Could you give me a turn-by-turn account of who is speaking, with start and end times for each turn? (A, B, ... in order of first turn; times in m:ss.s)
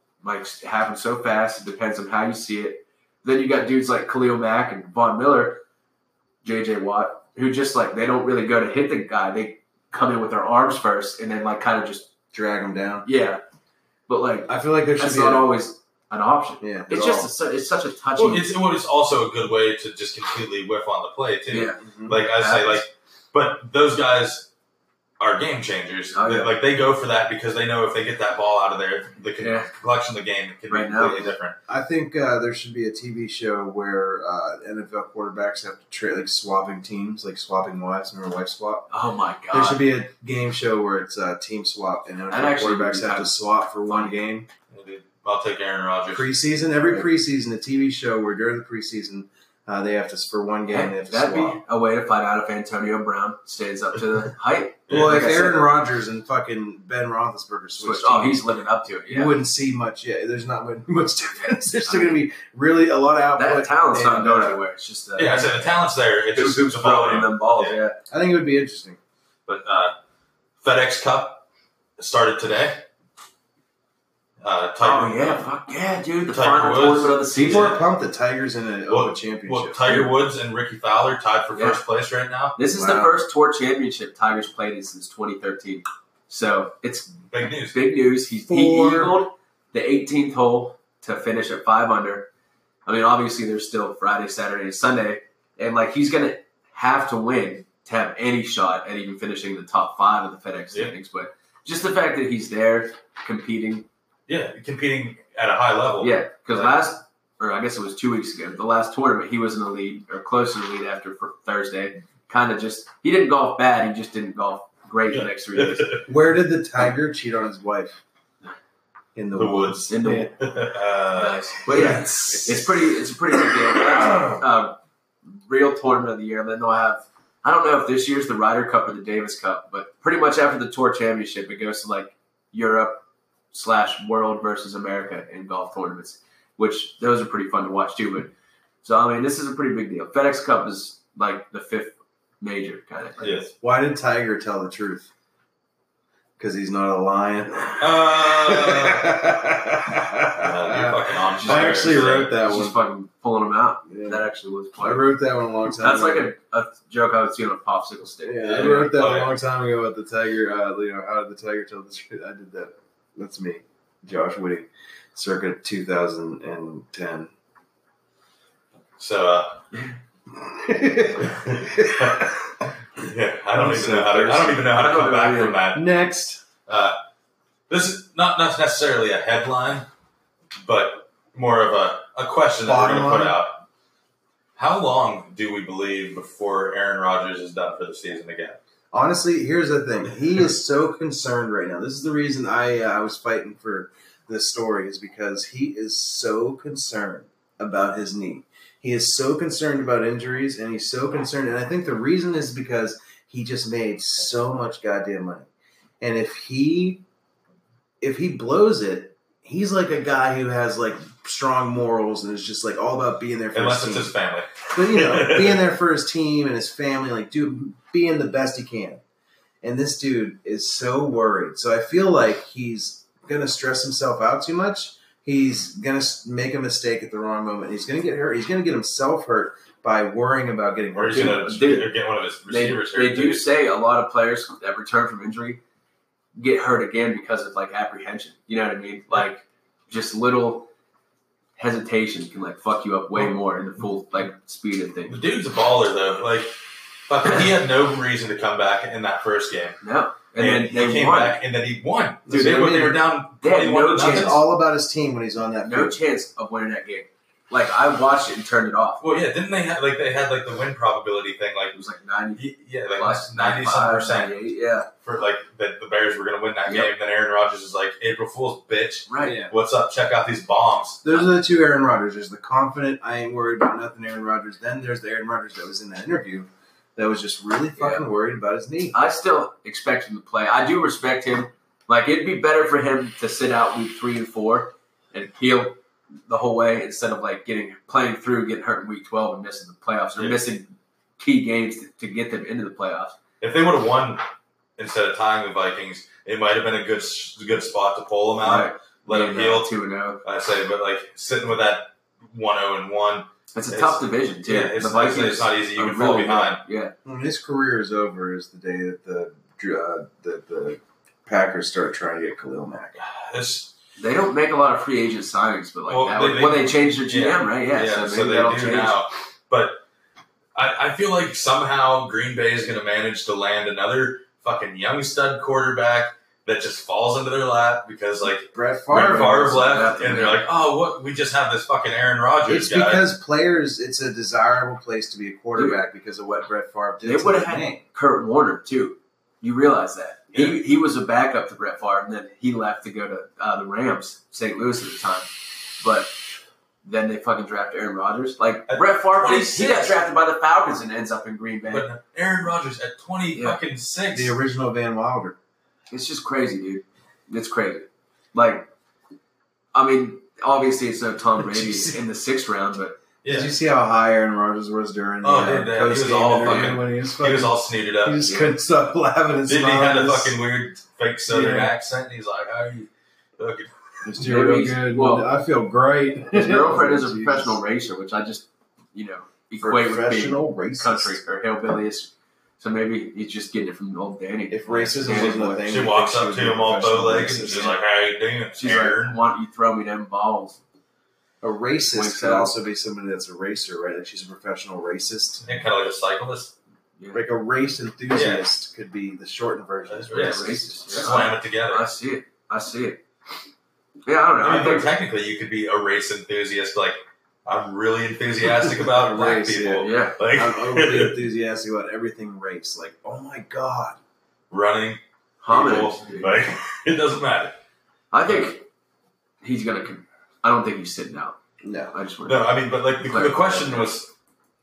0:00.2-0:05.6 A
0:06.4-0:12.1 A
0:12.3-0:13.1 B
0:13.0-0:13.4 A
0:14.1-0:18.5 A
0:14.5-0:15.5 B
0:16.6-0:17.3 B
0:18.2-0:24.5 C
0:21.5-0:21.8 A
0:21.8-0:22.2 B
0:22.3-0:22.8 A
0:25.2-0:31.6 C
0:26.1-0:26.5 A
0:29.4-0:29.7 A
0:30.7-0:31.2 A
0:31.0-0:38.9 B
0:38.9-0:39.8 A
0:39.5-0:44.5 B
0:42.3-0:44.2 A
0:44.7-0:46.3 C
0:46.1-0:51.6 B
0:50.7-0:55.6 A
0:54.9-0:55.3 C
0:54.9-0:58.4 B
0:57.8-0:59.4 A
0:59.1-1:04.6 B
1:01.4-1:02.2 A
1:03.4-1:05.6 A
1:05.2-1:07.8 C
1:06.3-1:08.0 A
1:08.1-1:09.0 B
1:09.5-1:09.9 C
1:10.6-1:11.4 C
1:12.0-1:12.8 C
1:14.4-1:15.4 C
1:14.8-1:17.7 A
1:16.3-1:17.8 C
1:17.3-1:20.1 B
1:18.9-1:22.6 C
1:21.5-1:21.8 A
1:22.6-1:32.3 A
1:22.7-1:23.1 B
1:27.3-1:27.8 C
1:28.5-1:29.2 B
1:32.8-1:43.9 A
1:44.3-1:46.8 C
1:46.0-1:56.0 A
1:55.1-1:56.1 C
1:56.0-1:58.0 B
1:59.1-2:00.3 B
1:59.3-2:02.7 C
1:59.9-2:00.3 A
2:01.1-2:18.3 A
2:03.9-2:04.4 B
2:18.8-2:23.5 A
2:23.2-2:23.5 C
2:23.6-2:25.1 B
2:26.4-2:32.8 B
2:27.8-2:29.2 C
2:30.3-2:32.3 C
2:31.2-2:35.1 A
2:33.9-2:34.2 B
2:34.8-2:36.3 B
2:35.8-2:38.9 A
2:38.2-2:47.3 B
2:38.5-2:39.4 C
2:49.0-2:49.6 C
2:49.7-2:50.0 A
2:50.3-2:52.3 B
2:51.2-2:52.3 C
2:53.0-2:55.9 C
2:53.5-2:54.7 B
2:54.7-2:55.6 A
2:55.7-2:56.4 B
2:56.7-2:57.0 C
2:57.7-2:59.8 C
3:00.6-3:03.6 C
3:02.6-3:03.4 B
3:04.6-3:08.6 C
3:08.9-3:25.5 B
3:26.0-3:27.0 B
3:28.0-3:34.1 B
3:33.5-3:35.6 C
3:34.7-3:39.0 B
3:39.6-3:51.8 B
3:50.9-3:53.5 C
3:51.1-3:51.9 A
3:52.5-3:55.6 A
3:56.3-4:00.7 A
4:01.6-4:05.2 A
4:05.1-4:06.6 C
4:07.1-4:09.8 C
4:09.8-4:11.4 A
4:10.4-4:14.4 C
4:12.3-4:13.0 B
4:12.3-4:14.4 A
4:14.0-4:16.0 B
4:15.6-4:19.0 A
4:19.0-4:21.7 C
4:21.7-4:24.9 A
4:22.4-4:24.4 C
4:25.0-4:31.0 C
4:26.6-4:26.9 A
4:29.1-4:29.4 A
4:29.2-4:29.5 B
4:31.0-4:39.0 B
4:37.8-4:38.0 A
4:38.9-4:53.2 A
4:50.2-4:50.4 C
4:53.4-4:54.2 C
4:54.8-4:59.7 C
4:58.4-5:00.2 A
5:00.2-5:06.6 C
5:03.5-5:06.9 A
5:07.0-5:13.0 B
5:13.0-5:13.7 C
5:14.0-5:19.0 A
5:15.9-5:19.8 C
5:20.5-5:33.1 C
5:28.5-5:29.8 B
5:28.9-5:30.4 A
5:32.4-5:37.8 B
5:35.5-5:35.8 A
5:37.0-5:46.1 A
5:40.3-5:40.6 C
5:46.8-5:51.9 A
5:48.7-5:50.0 C
5:51.7-5:54.3 C
5:53.3-5:53.6 A
5:54.1-5:55.4 B
5:55.9-5:58.7 A
5:59.7-6:03.0 A
6:01.4-6:02.0 B
6:03.2-6:03.5 C
6:03.3-6:10.4 B
6:05.2-6:08.2 C
6:08.2-6:08.5 A
6:09.4-6:13.7 C
6:11.3-6:11.7 B
6:14.0-6:17.6 B
6:14.2-6:15.3 A
6:16.3-6:25.7 A
6:19.6-6:21.2 B
6:24.5-6:27.8 B
6:25.2-6:29.2 C
6:28.6-6:30.6 A
6:31.4-6:35.5 B
6:31.9-6:32.6 A
6:35.4-6:36.5 C
6:37.0-6:37.2 A
6:37.1-6:41.1 B
6:38.1-6:38.4 C
6:39.9-6:41.8 C
6:40.1-6:43.0 A
6:44.0-6:44.9 A
6:44.4-6:51.2 C
6:48.4-6:54.0 B
6:49.8-6:50.2 A
6:54.5-6:57.5 C
6:55.4-6:56.3 A
6:58.1-6:58.6 A
6:59.4-7:01.4 A
7:01.6-7:01.9 B
7:01.9-7:02.5 A
7:02.2-7:04.1 C
7:03.0-7:03.9 A